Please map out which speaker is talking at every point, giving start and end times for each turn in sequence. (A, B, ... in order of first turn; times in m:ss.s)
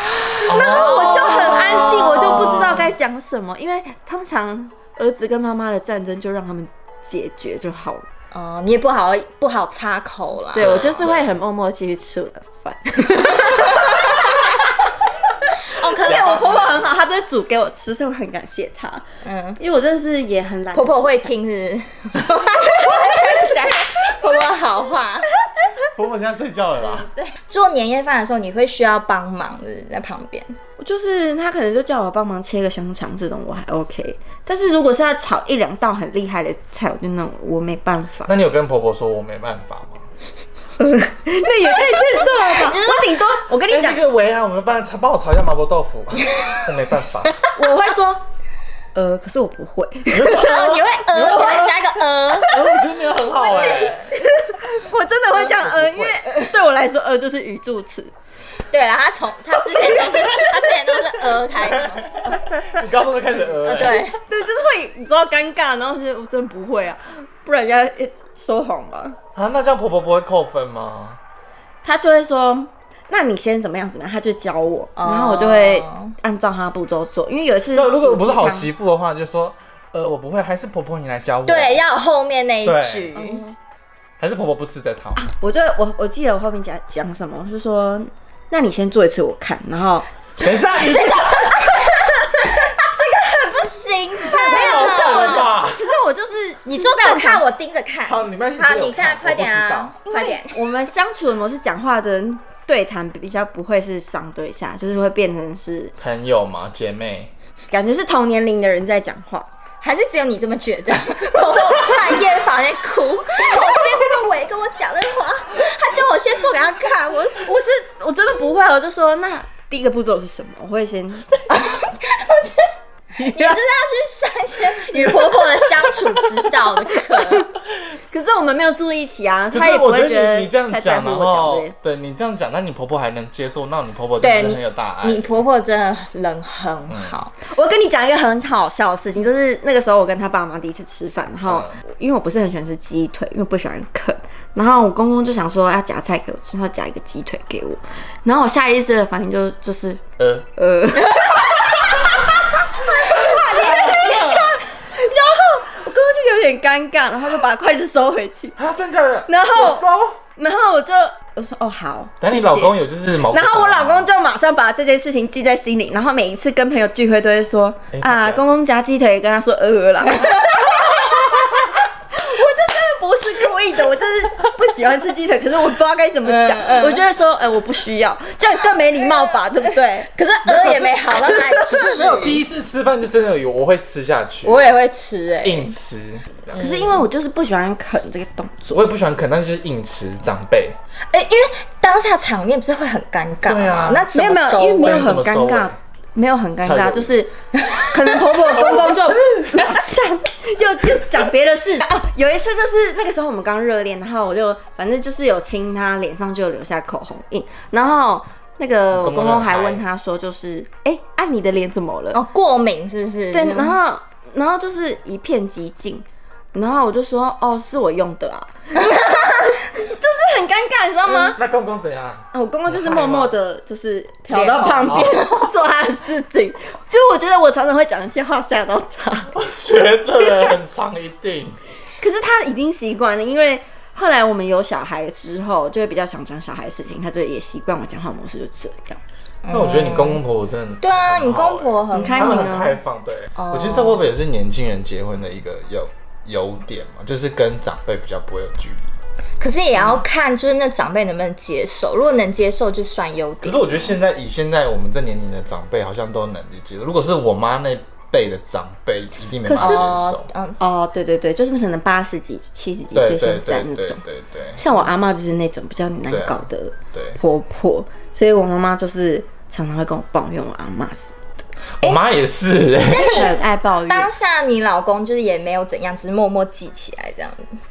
0:00.3-0:02.9 A
0:00.4-0:08.1 B
0:00.4-0:02.9 C
0:08.3-0:10.8 A
0:10.5-0:14.2 B
0:10.6-0:11.4 C
0:13.6-0:14.2 A
0:15.5-0:16.7 A
0:16.0-0:19.0 B
0:16.0-0:16.9 C
0:19.2-0:19.6 A
0:19.6-0:21.3 B
0:20.7-0:25.3 A
0:22.7-0:23.8 B
0:25.9-0:27.1 C
0:26.8-0:30.6 A
0:30.8-0:38.3 B
0:38.3-0:40.1 C
0:40.8-0:44.0 B
0:41.7-0:43.2 A
0:43.7-0:47.4 C
0:47.6-0:48.3 B
0:48.9-0:50.4 B
0:50.1-0:54.1 C
0:50.3-0:52.8 A
0:53.5-0:58.1 B
0:53.6-0:53.9 A
0:55.3-0:56.5 C
0:58.7-1:02.3 A
1:02.0-1:04.1 C
1:02.4-1:02.8 B
1:03.6-1:04.2 A
1:03.7-1:09.2 B
1:09.4-1:11.2 C
1:11.8-1:18.7 B
1:15.0-1:16.1 A
1:17.7-1:21.8 C
1:21.5-1:23.5 A
1:22.6-1:23.1 C
1:23.1-1:23.6 B
1:24.2-1:25.2 C
1:25.2-1:30.1 B
1:30.4-1:31.7 C
1:30.7-1:35.6 A
1:34.2-1:37.4 B
1:34.3-1:35.9 C
1:36.7-1:40.7 A
1:38.1-1:39.9 C
1:40.1-1:46.0 B
1:46.0-1:47.3 C
1:47.7-1:49.5 B
1:49.8-1:57.5 A
1:53.5-1:54.0 B
1:57.4-2:01.3 B
2:01.5-2:07.5 A
2:03.2-2:03.6 B
2:08.1-2:11.8 B
2:09.5-2:15.4 C
2:14.2-2:17.3 A
2:16.9-2:17.2 C
2:17.4-2:30.0 B
2:21.4-2:21.8 C
2:30.2-2:30.5 C
2:30.6-2:32.1 B
2:31.7-2:32.0 C
2:32.9-2:38.6 B
2:32.9-2:34.6 C
2:33.2-2:34.6 A
2:38.6-2:40.2 C
2:39.3-3:00.1 B
2:42.2-2:44.1 C
2:47.9-2:48.4 C
2:50.1-2:50.8 A
2:56.2-2:57.0 A
3:00.1-3:02.4 A
3:00.4-3:04.8 C
3:01.2-3:02.0 B
3:04.4-3:05.8 A
3:05.4-3:06.7 C
3:06.5-3:07.1 A
3:06.6-3:08.8 B
3:08.7-3:10.8 C
3:11.1-3:15.1 A
3:13.4-3:14.1 C
3:14.1-3:32.2 B
3:14.8-3:15.8 C
3:16.6-3:17.1 C
3:17.7-3:18.1 A
3:18.5-3:19.4 C
3:28.9-3:29.8 C
3:32.1-3:33.8 A
3:33.3-3:41.4 B
3:38.8-3:39.2 A
3:41.4-3:43.4 C
3:42.3-3:49.4 B
3:44.3-3:45.5 A
3:44.9-3:45.2 C
3:49.4-3:51.6 C
3:52.0-3:59.0 B
3:59.4-4:00.2 A
3:59.5-4:09.0 C
4:00.8-4:02.6 A
4:01.9-4:02.8 B
4:03.4-4:04.0 A
4:09.4-4:14.0 A
4:13.4-4:20.3 C
4:19.4-4:19.9 B
4:19.6-4:20.6 A
4:20.6-4:24.0 B
4:23.0-4:24.6 C
4:24.6-4:31.2 B
4:26.1-4:27.2 C
4:31.8-4:33.3 C
4:32.9-4:37.5 A
4:33.0-4:34.1 B